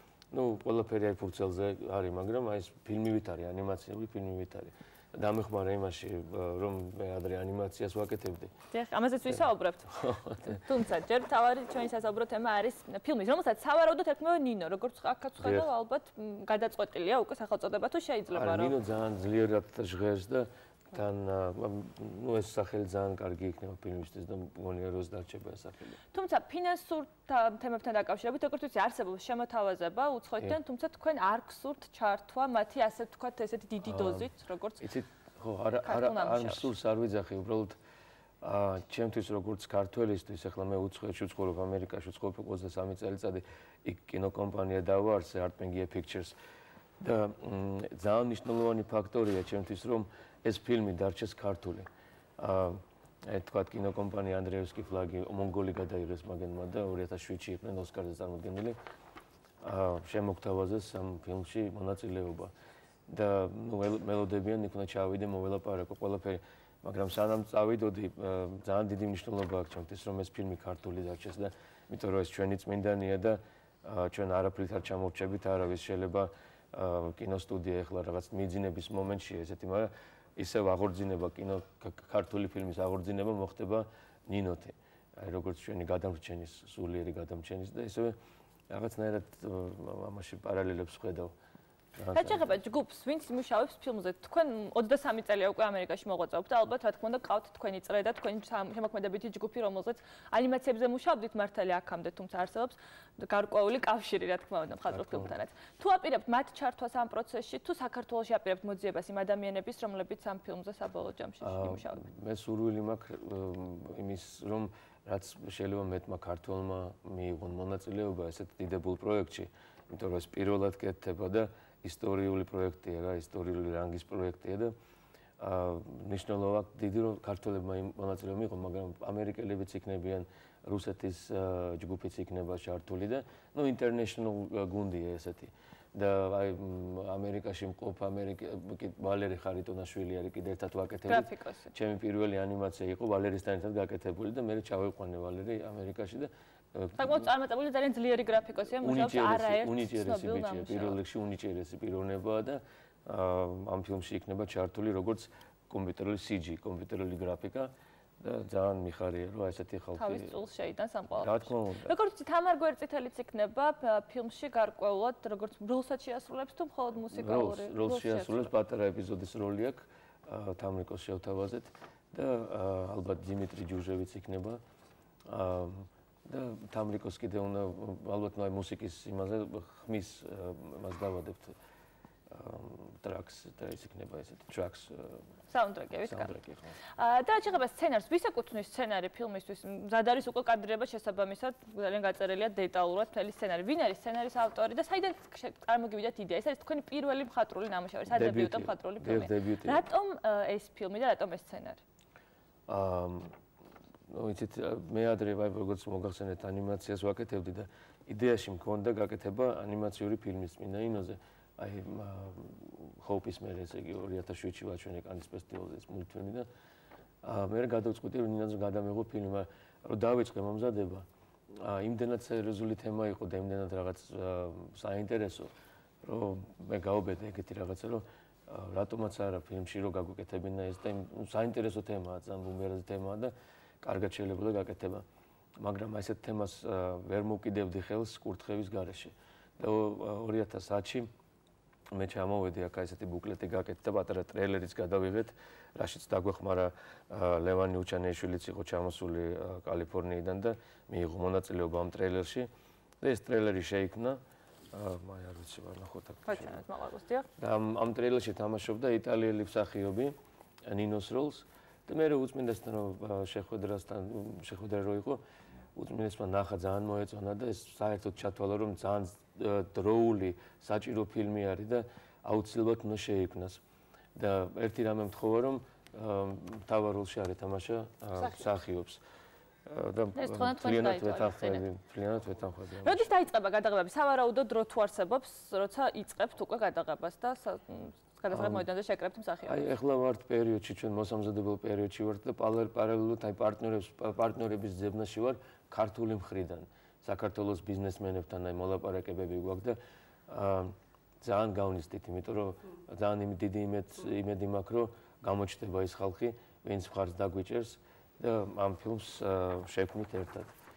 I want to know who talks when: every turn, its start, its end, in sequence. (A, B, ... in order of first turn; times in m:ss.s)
0:00.3-0:08.5 A
0:08.7-0:09.9 B
0:09.4-0:10.6 A
0:10.5-0:18.8 B
0:15.4-0:15.7 A
0:18.3-0:26.0 A
0:26.1-0:34.8 B
0:33.8-0:37.8 A
0:35.8-0:36.7 B
0:38.4-0:46.4 A
0:47.0-0:58.8 A
0:59.6-1:02.5 A
1:03.1-1:28.2 A
1:28.7-1:31.3 A
1:32.0-1:32.5 A
1:32.1-1:52.0 B
1:44.9-1:45.4 A
1:51.4-2:04.7 A
2:05.4-2:27.3 A
2:21.1-2:21.7 B
2:27.0-2:31.0 B
2:28.8-2:40.4 A
2:40.0-2:48.5 B
2:41.2-2:42.0 A
2:47.1-2:54.6 A
2:55.3-3:01.6 A
3:02.3-3:05.3 A
3:05.5-3:06.4 B
3:06.0-3:06.8 A
3:07.0-3:21.8 B
3:18.1-3:19.8 A
3:22.7-3:23.3 A
3:24.1-3:36.5 A
3:37.2-3:45.5 A
3:46.0-3:55.0 A
3:55.6-4:01.1 A
4:01.9-4:12.5 A
4:13.0-4:14.2 A
4:14.7-4:16.6 A
4:16.3-4:17.3 B
4:17.4-4:20.2 A
4:20.7-4:25.2 A
4:25.8-4:33.6 A
4:34.2-4:39.0 A
4:38.2-4:38.4 B
4:39.7-4:43.1 A
4:40.2-4:41.6 B
4:42.8-4:49.7 B
4:48.3-4:48.7 A
4:49.5-4:59.8 A
5:00.3-5:10.5 A